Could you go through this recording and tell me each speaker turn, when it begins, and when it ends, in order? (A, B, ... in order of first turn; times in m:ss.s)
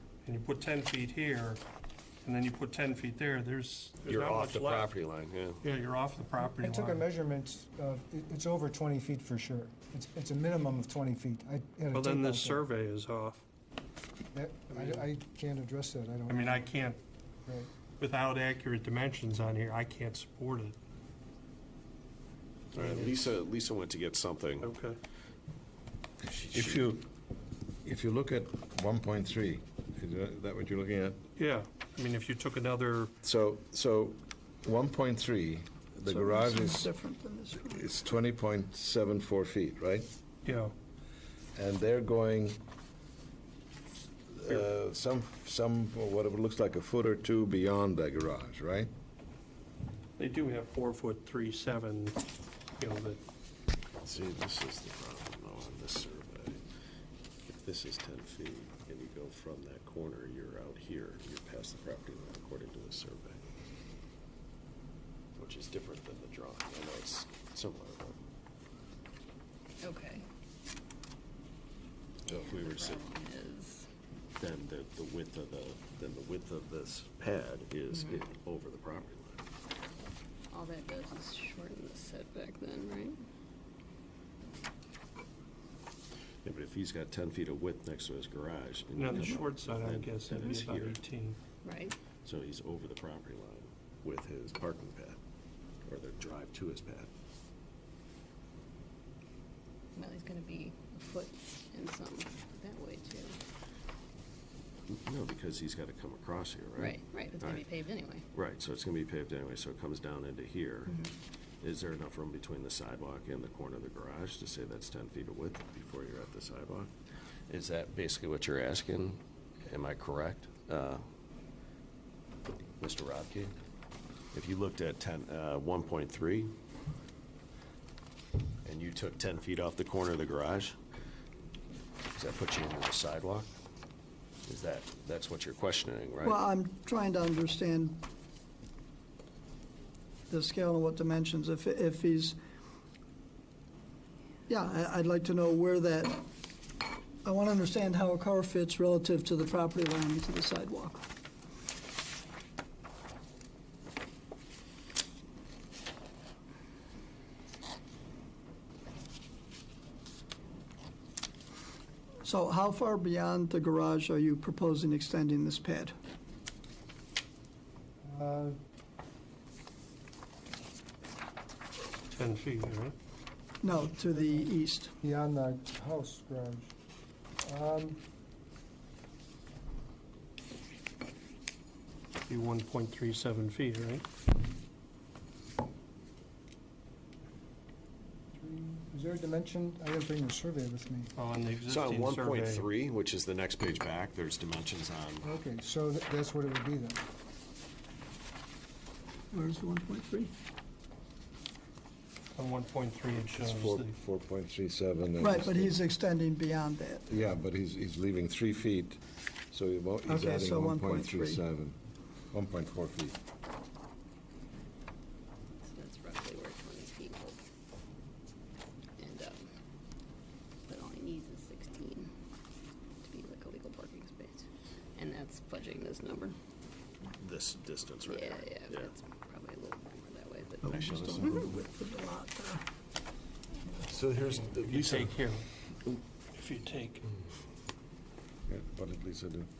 0:00.2-0:01.6 A
0:02.2-0:04.9 A
0:04.0-0:05.6 B
0:05.6-0:07.0 A
0:06.4-0:12.6 C
0:11.9-0:13.4 A
0:14.3-0:16.7 C
0:14.7-0:15.1 A
0:16.3-0:17.0 A
0:18.0-0:20.8 A
0:22.7-0:24.7 B
0:24.6-0:25.0 A
0:26.2-0:26.9 B
0:26.5-0:27.1 D
0:27.8-0:31.2 D
0:31.4-0:33.1 A
0:33.2-0:36.9 D
0:36.0-0:37.8 E
0:37.6-0:40.1 D
0:40.4-0:40.7 A
0:41.6-0:42.6 D
0:44.3-0:48.9 D
0:50.2-0:52.2 A
0:52.8-0:53.2 A
0:54.0-0:56.6 B
0:57.5-1:03.4 B
1:05.4-1:08.2 B
1:09.8-1:10.2 F
1:12.2-1:13.0 B
1:12.3-1:13.8 F
1:14.4-1:19.4 B
1:20.5-1:23.2 F
1:26.4-1:31.0 B
1:28.9-1:31.4 A
1:31.6-1:32.0 F
1:32.2-1:35.2 B
1:35.8-1:37.1 B
1:40.0-1:43.4 F
1:44.9-1:47.7 B
1:46.8-1:48.2 F
1:48.3-1:51.0 B
1:51.6-1:56.9 B
1:57.5-2:01.0 B
2:02.8-2:03.6 B
2:04.3-2:06.5 B
2:08.6-2:10.8 B
2:12.1-2:13.5 B
2:14.4-2:16.4 B
2:16.2-2:18.0 E
2:20.3-2:22.4 E
2:24.5-2:26.3 E
2:27.2-2:31.0 E
2:42.2-2:45.9 E
2:48.0-2:48.6 C
2:52.1-2:52.9 A
2:53.6-2:54.9 E
2:54.1-2:54.5 C
2:55.0-2:56.7 C
2:57.4-2:58.0 C
3:02.3-3:04.0 A
3:08.3-3:11.1 C
3:11.1-3:12.7 A
3:11.7-3:15.3 B
3:15.2-3:17.0 C
3:19.3-3:20.3 E
3:22.3-3:23.9 A
3:23.2-3:25.8 D
3:25.2-3:27.1 E
3:27.1-3:31.8 D
3:30.0-3:31.4 E
3:32.3-3:33.2 D
3:35.6-3:37.4 F
3:39.0-3:39.4 F
3:40.7-3:42.1 F
3:43.0-3:44.4 F
3:45.0-3:46.3 F
3:47.1-3:48.9 B
3:48.0-3:50.7 F
3:50.6-3:52.6 E
3:50.6-3:51.4 B
3:53.9-3:55.1 B
3:54.2-3:55.1 D
3:54.7-3:55.5 A
3:56.3-3:57.1 A
3:58.5-3:59.5 D